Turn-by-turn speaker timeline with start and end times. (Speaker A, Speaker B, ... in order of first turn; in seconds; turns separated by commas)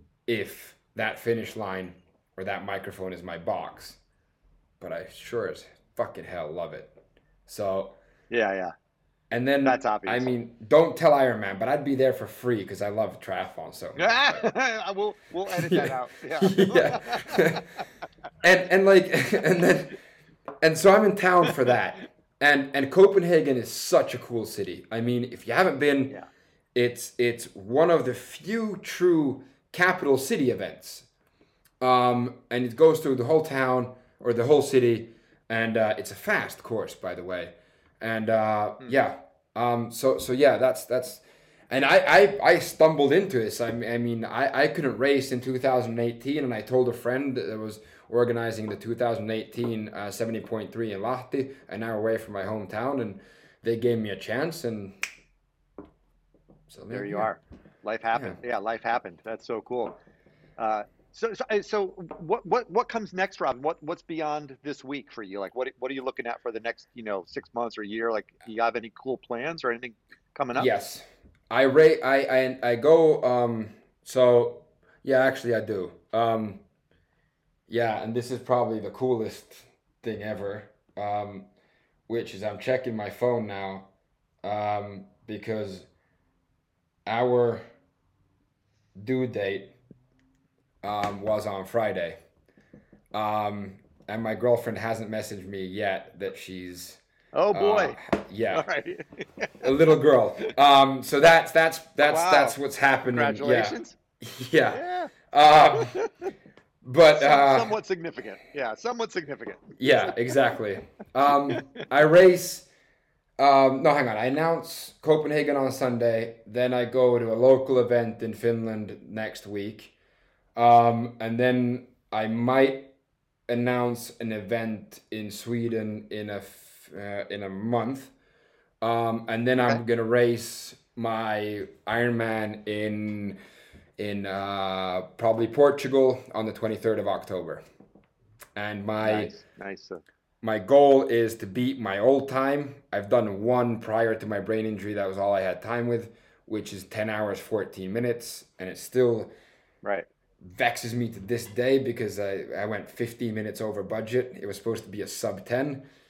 Speaker A: 0.3-4.0, Speaker A: 4.8-6.9, Speaker A: 7.5-8.0, Speaker B: 8.3-8.7, Speaker A: 9.3-14.5, Speaker B: 9.6-10.3, Speaker B: 14.0-17.8, Speaker A: 15.5-17.6, Speaker A: 18.4-19.9, Speaker A: 20.6-26.1, Speaker A: 26.7-31.1, Speaker A: 31.8-55.0, Speaker A: 56.7-57.3, Speaker B: 56.9-60.0, Speaker B: 60.6-70.7, Speaker A: 70.6-76.6, Speaker A: 77.7-81.5, Speaker A: 82.1-83.9, Speaker A: 84.4-85.9, Speaker A: 87.0-87.6, Speaker A: 89.0-89.8, Speaker A: 90.8-92.2, Speaker A: 93.1-97.0, Speaker B: 97.3-98.0, Speaker A: 97.5-98.6, Speaker B: 98.5-99.7, Speaker A: 99.6-106.0, Speaker B: 102.0-102.6, Speaker B: 103.1-104.0, Speaker B: 104.7-105.1, Speaker B: 105.7-106.3, Speaker A: 106.8-107.7, Speaker B: 107.1-110.4, Speaker A: 109.8-112.7, Speaker B: 111.5-111.8, Speaker A: 113.4-119.9, Speaker A: 120.5-122.9, Speaker A: 123.5-128.1, Speaker A: 128.8-133.4, Speaker A: 134.0-137.6, Speaker A: 138.6-139.3, Speaker B: 139.0-140.0, Speaker A: 140.4-149.3, Speaker A: 150.4-155.8